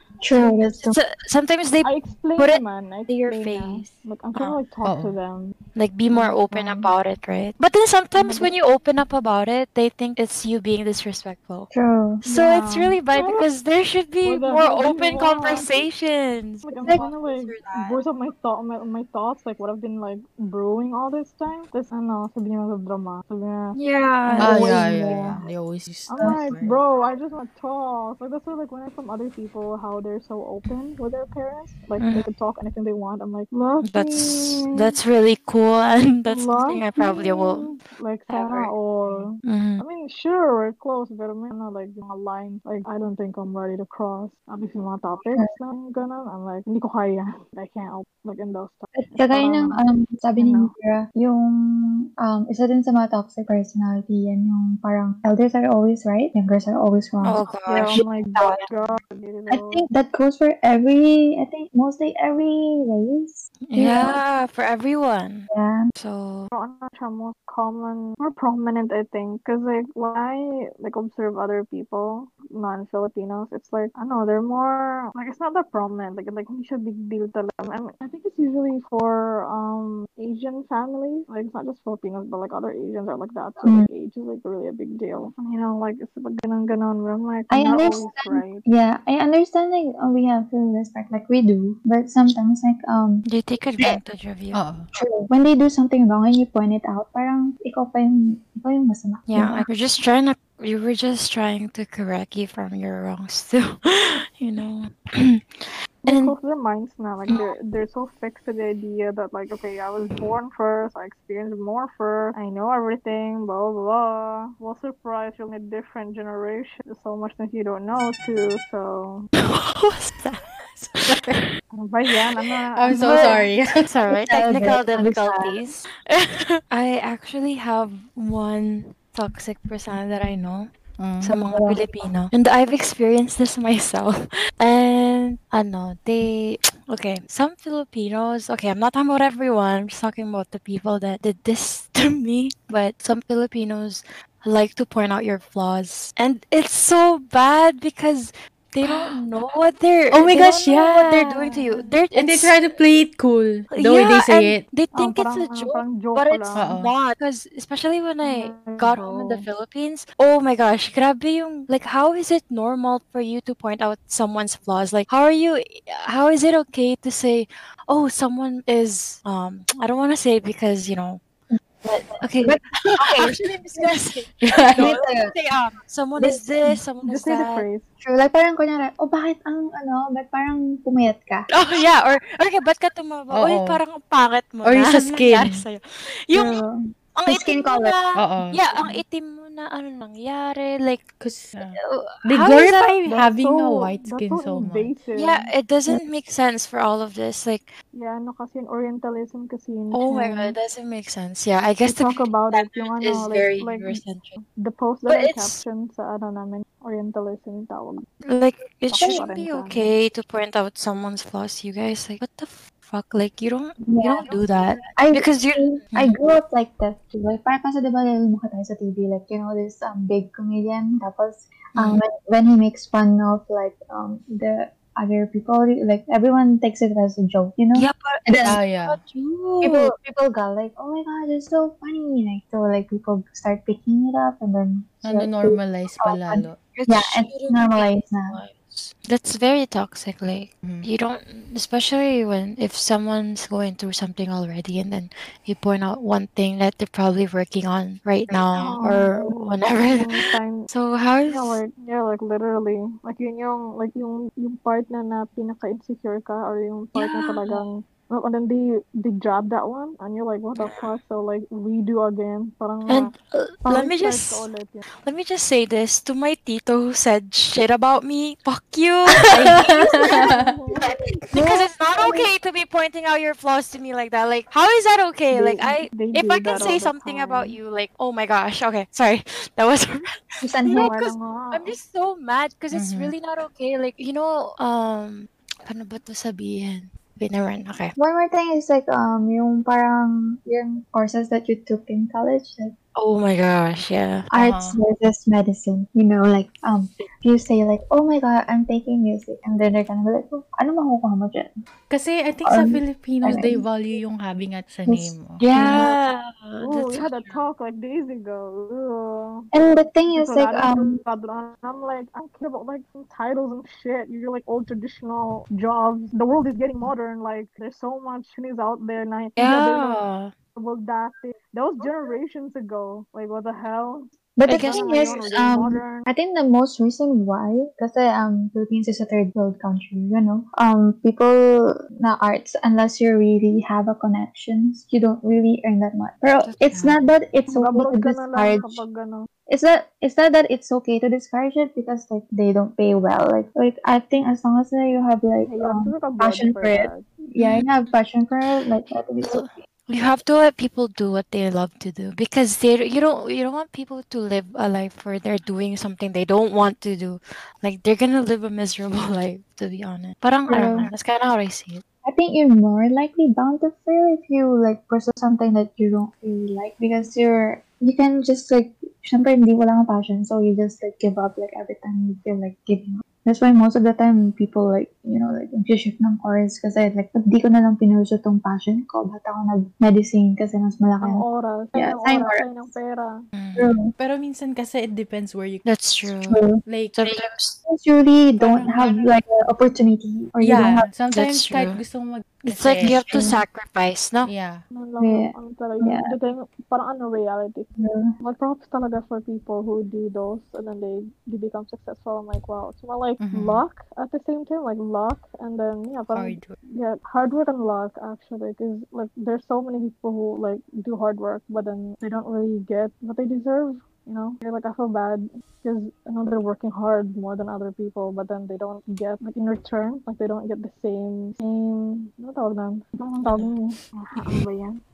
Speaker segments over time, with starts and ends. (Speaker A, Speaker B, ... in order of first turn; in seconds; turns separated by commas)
Speaker A: 0.2-1.0, Speaker B: 0.8-4.6, Speaker C: 1.8-5.5, Speaker D: 4.8-5.2, Speaker B: 5.7-11.7, Speaker C: 6.1-6.9, Speaker C: 8.2-8.5, Speaker A: 11.7-12.2, Speaker B: 12.2-18.0, Speaker C: 12.2-13.4, Speaker C: 14.2-15.8, Speaker C: 16.6-23.8, Speaker B: 23.7-24.8, Speaker A: 24.3-25.5, Speaker D: 24.4-26.8, Speaker C: 26.1-34.9, Speaker B: 32.0-32.3, Speaker B: 33.8-37.8, Speaker C: 36.3-50.7, Speaker A: 38.3-38.7, Speaker B: 39.4-39.8, Speaker A: 48.9-64.2, Speaker B: 57.2-58.7, Speaker C: 57.7-59.9, Speaker B: 63.6-66.5, Speaker A: 65.5-65.9, Speaker C: 66.5-88.6, Speaker A: 83.6-83.9, Speaker A: 87.5-93.2, Speaker B: 93.2-94.6, Speaker D: 94.5-94.8, Speaker A: 94.9-99.7, Speaker B: 99.3-106.3, Speaker C: 106.0-119.3, Speaker B: 119.4-121.3, Speaker D: 121.1-121.4, Speaker C: 121.7-123.5, Speaker D: 122.7-123.8, Speaker B: 122.9-152.6, Speaker A: 124.1-125.6, Speaker D: 131.0-131.3, Speaker A: 131.5-131.8, Speaker D: 148.8-149.2, Speaker D: 150.1-154.6, Speaker B: 153.7-171.2, Speaker C: 154.9-156.6, Speaker D: 156.5-156.9, Speaker C: 158.2-159.5, Speaker A: 171.5-173.9, Speaker B: 172.2-177.6, Speaker D: 174.4-174.9, Speaker A: 174.8-175.3, Speaker A: 176.2-176.8, Speaker C: 177.0-177.8, Speaker A: 178.0-181.5, Speaker B: 181.5-186.6, Speaker D: 183.3-183.8, Speaker D: 184.6-185.6, Speaker A: 186.3-187.9, Speaker B: 187.2-191.1, Speaker D: 188.1-188.6, Speaker D: 191.2-194.9, Speaker B: 191.8-193.0, Speaker C: 193.1-195.5, Speaker B: 195.1-197.7, Speaker C: 197.9-200.6, Speaker B: 199.9-204.3, Speaker C: 201.8-208.1, Speaker B: 205.1-205.6, Speaker B: 208.2-216.2, Speaker C: 208.9-209.9, Speaker A: 209.0-209.3, Speaker A: 213.8-214.4, Speaker A: 214.9-228.6, Speaker B: 221.8-222.0, Speaker B: 227.7-229.9, Speaker D: 228.4-229.0, Speaker A: 229.6-238.4, Speaker D: 235.0-236.6, Speaker B: 236.7-251.6, Speaker C: 248.5-250.7, Speaker C: 251.3-263.1, Speaker B: 256.9-257.6, Speaker B: 260.6-261.0, Speaker B: 262.9-264.5, Speaker C: 263.6-264.8, Speaker B: 265.0-270.3, Speaker D: 269.2-270.5, Speaker C: 270.0-270.9, Speaker B: 270.8-287.9, Speaker A: 271.3-272.3, Speaker C: 275.3-277.6, Speaker A: 280.4-280.9, Speaker C: 280.7-281.8, Speaker D: 282.7-283.1, Speaker A: 288.0-292.7, Speaker B: 292.9-294.3, Speaker A: 294.3-301.5, Speaker D: 294.3-294.8, Speaker D: 301.9-305.4, Speaker A: 302.4-303.7, Speaker A: 304.8-305.9, Speaker B: 305.4-307.4, Speaker C: 305.6-306.0, Speaker C: 306.6-309.4, Speaker A: 309.5-311.0, Speaker C: 310.1-320.0, Speaker B: 319.4-320.3, Speaker C: 320.6-326.1, Speaker A: 321.8-322.1, Speaker A: 324.4-338.8, Speaker B: 324.4-325.3, Speaker B: 336.4-337.0, Speaker C: 337.5-339.3, Speaker A: 339.5-349.6, Speaker C: 345.4-347.0, Speaker B: 347.4-347.7, Speaker B: 349.2-361.8, Speaker A: 360.5-360.9, Speaker A: 362.0-382.7, Speaker C: 381.0-383.2, Speaker B: 383.3-383.7, Speaker A: 383.6-383.9, Speaker D: 384.0-386.1, Speaker B: 385.6-387.6, Speaker A: 386.3-386.6, Speaker D: 386.6-387.0, Speaker A: 387.6-390.9, Speaker C: 388.4-389.1, Speaker D: 390.4-393.3, Speaker B: 391.1-391.8, Speaker B: 392.4-394.3, Speaker A: 392.8-393.4, Speaker D: 394.2-394.6, Speaker C: 394.7-397.7, Speaker A: 395.0-396.1, Speaker A: 397.8-398.1, Speaker C: 398.2-424.8, Speaker D: 403.2-403.6, Speaker D: 406.1-406.6, Speaker B: 423.2-423.5